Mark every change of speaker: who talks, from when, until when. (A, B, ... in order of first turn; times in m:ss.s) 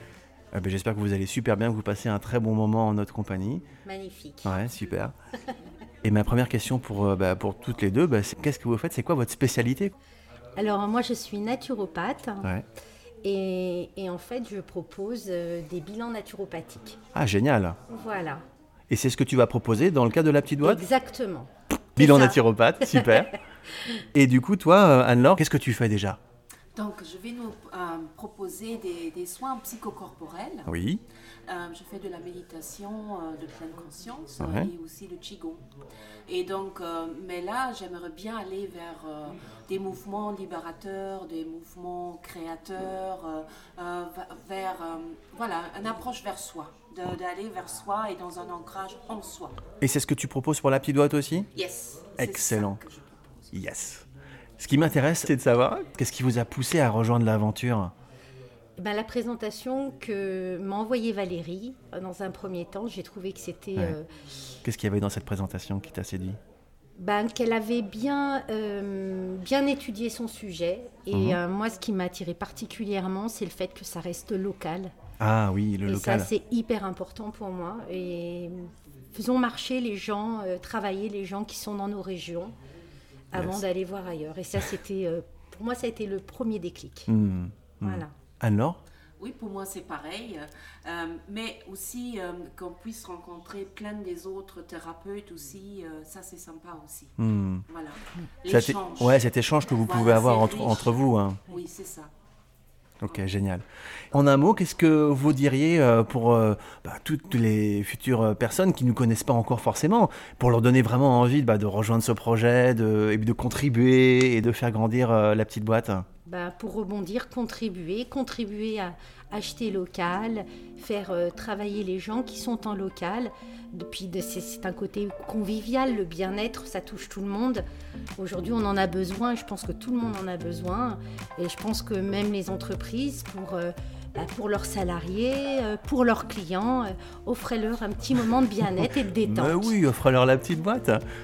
0:00.5-0:03.6 A
0:03.8-0:04.6 B
0:04.4-0:05.1 A
0:06.0-0:09.9 A
0:10.6-0:12.5 B
0:13.2-0:17.0 B
0:17.1-0:17.8 A
0:17.9-0:18.4 B
0:18.9-0:20.8 A
0:20.6-0:23.2 B
0:22.0-0:23.4 A
0:24.1-0:26.2 A
0:26.8-0:30.7 C
0:30.7-0:31.0 A
0:31.5-0:35.6 C
0:34.4-0:34.7 A
0:36.3-0:49.6 C
0:49.8-0:51.5 A
0:51.5-0:53.5 C
0:52.2-0:52.8 A
0:53.5-0:54.0 A
0:54.6-0:57.9 A
0:58.8-1:04.1 B
1:04.6-1:06.4 A
1:07.0-1:14.9 B
1:11.1-1:11.4 A
1:15.2-1:16.3 A
1:15.8-1:22.5 B
1:23.3-1:27.1 B
1:23.3-1:23.6 A
1:27.1-1:28.8 A
1:27.8-1:28.1 B
1:29.2-1:37.1 C
1:37.2-1:37.6 A
1:37.7-1:39.2 C
1:38.5-1:41.4 A
1:39.8-1:42.1 C
1:43.0-1:56.0 A
1:56.2-2:07.6 B
2:08.2-2:19.8 B
2:19.2-2:21.0 A